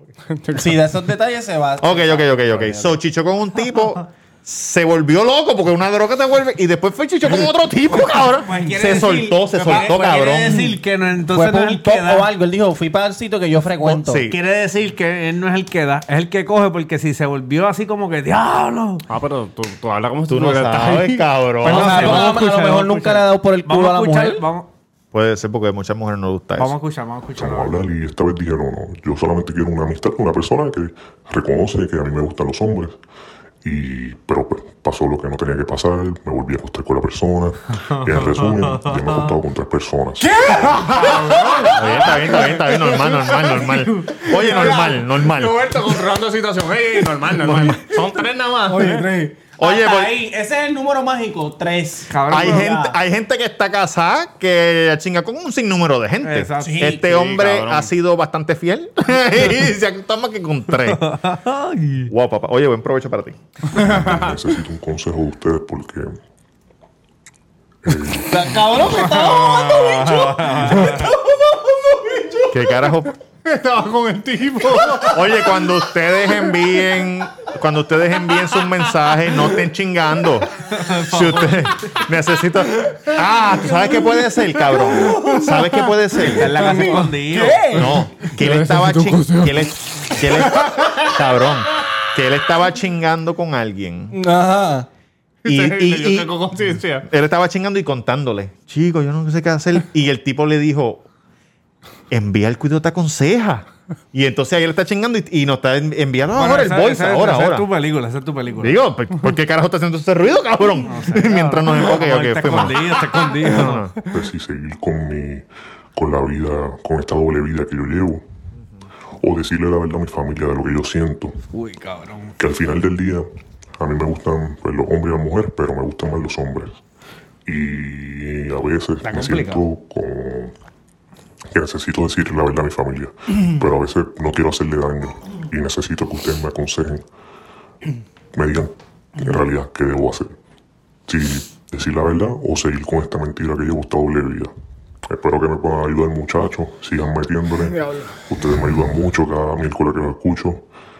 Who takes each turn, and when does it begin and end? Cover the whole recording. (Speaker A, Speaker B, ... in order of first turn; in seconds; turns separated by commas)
Speaker A: 0.3-0.8, Speaker B: 0.5-3.0, Speaker C: 1.8-10.6, Speaker D: 8.4-12.3, Speaker B: 9.6-10.7, Speaker B: 11.3-14.3, Speaker C: 13.8-14.4, Speaker D: 14.2-19.0, Speaker A: 19.1-21.2, Speaker C: 20.3-22.3, Speaker D: 21.6-24.7, Speaker B: 21.6-24.4, Speaker C: 25.1-26.7, Speaker D: 26.6-27.9, Speaker E: 27.4-33.0, Speaker E: 33.6-40.9, Speaker D: 37.8-39.2, Speaker B: 40.4-41.6, Speaker A: 40.8-43.5, Speaker C: 41.7-45.9, Speaker A: 44.2-49.1, Speaker C: 47.4-47.8, Speaker B: 48.7-52.9, Speaker C: 49.6-50.2, Speaker D: 52.1-52.7, Speaker C: 52.3-61.0, Speaker D: 56.2-56.9, Speaker B: 56.6-57.0, Speaker A: 57.0-57.9, Speaker D: 60.9-62.1, Speaker C: 62.1-63.4, Speaker E: 63.7-66.2, Speaker E: 67.8-69.1, Speaker B: 68.3-72.5, Speaker D: 68.8-71.1, Speaker C: 72.5-73.1, Speaker A: 73.4-75.4, Speaker C: 75.0-86.8, Speaker D: 80.7-81.5, Speaker B: 85.0-85.7, Speaker D: 86.2-87.9, Speaker B: 86.4-88.0, Speaker C: 87.7-94.2, Speaker A: 88.2-91.0, Speaker B: 94.1-94.9, Speaker A: 95.4-97.0, Speaker C: 95.4-101.0, Speaker C: 102.1-107.7, Speaker D: 106.3-108.8, Speaker C: 108.6-114.0, Speaker D: 110.9-113.9, Speaker E: 114.0-118.2, Speaker E: 119.2-121.3, Speaker D: 121.5-122.3, Speaker E: 122.4-123.3, Speaker E: 123.8-126.8, Speaker E: 127.5-130.5, Speaker D: 129.0-129.6, Speaker E: 131.5-137.0, Speaker E: 138.3-140.3, Speaker E: 141.1-144.5, Speaker E: 145.1-150.7